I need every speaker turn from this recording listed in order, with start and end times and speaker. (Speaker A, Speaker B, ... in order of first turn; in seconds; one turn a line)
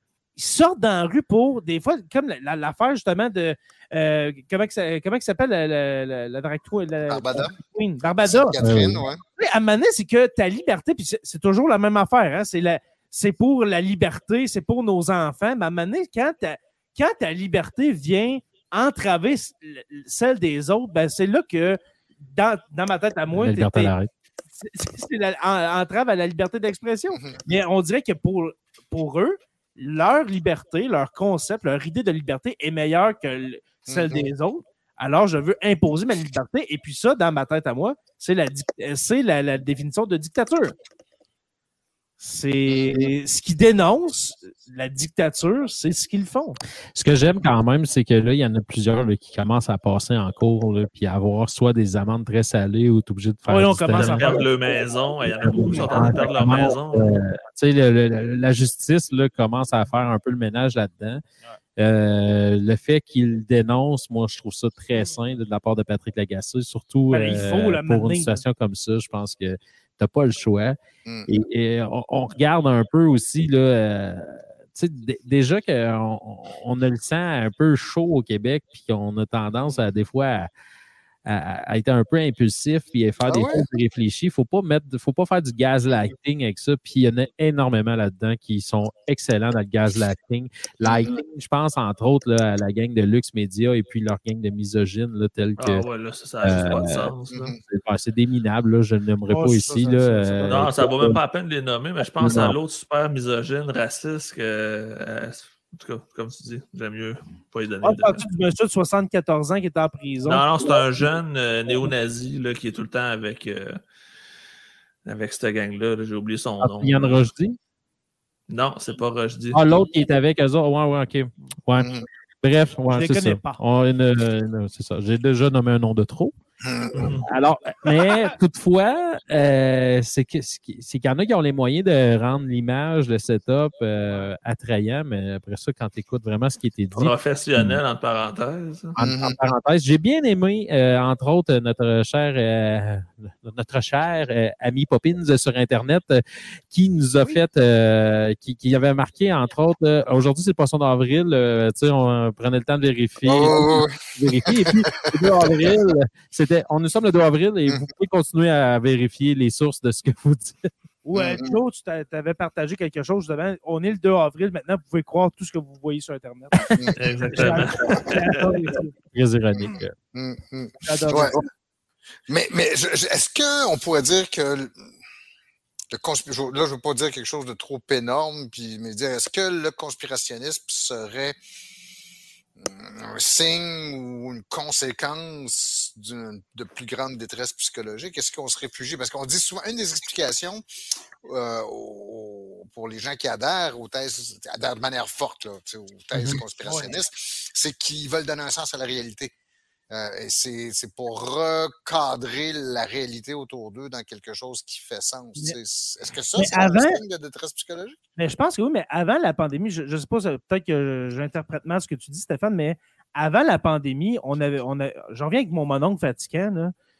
Speaker A: 0.3-8.5
Speaker B: 7.1-7.5
Speaker B: 8.2-9.2
Speaker C: 8.6-9.0
Speaker A: 9.4-23.9
Speaker C: 23.3-24.1
Speaker A: 24.6-40.7
Speaker B: 27.1-27.4
Speaker B: 33.9-34.3
Speaker A: 42.2-46.6
Speaker B: 42.7-43.1
Speaker C: 46.9-54.3
Speaker A: 53.5-54.5
Speaker D: 53.9-57.1
Speaker C: 55.4-61.2
Speaker C: 61.8-80.5
Speaker A: 67.1-68.4
Speaker B: 71.0-71.3
Speaker C: 81.2-95.8
Speaker B: 83.3-83.6
Speaker B: 90.8-91.2
Speaker D: 95.6-97.5
Speaker C: 96.4-97.1
Speaker B: 97.3-97.6
Speaker C: 97.7-101.2
Speaker A: 99.3-100.9
Speaker D: 100.5-108.2
Speaker C: 102.0-102.5
Speaker A: 107.8-111.0
Speaker D: 110.2-113.8
Speaker D: 115.0-117.3
Speaker C: 116.6-117.6
Speaker D: 118.5-119.8
Speaker C: 119.5-126.3
Speaker B: 121.8-122.0
Speaker A: 122.9-123.6
Speaker B: 126.6-127.2
Speaker D: 126.9-127.2
Speaker C: 127.2-137.8
Speaker D: 136.9-138.9
Speaker B: 138.9-139.4
Speaker C: 138.9-160.7
Speaker B: 153.2-155.7
Speaker A: 161.0-166.7
Speaker B: 161.1-161.5
Speaker D: 166.9-168.6
Speaker A: 167.3-168.9
Speaker C: 167.4-167.7
Speaker C: 169.1-169.9
Speaker B: 169.6-171.4
Speaker A: 170.8-171.4
Speaker B: 172.3-174.9
Speaker B: 175.9-181.3
Speaker B: 182.6-190.6
Speaker B: 191.2-199.3
Speaker C: 196.1-196.4
Speaker A: 196.6-196.9
Speaker B: 199.9-208.0
Speaker A: 206.3-207.0
Speaker A: 208.2-216.7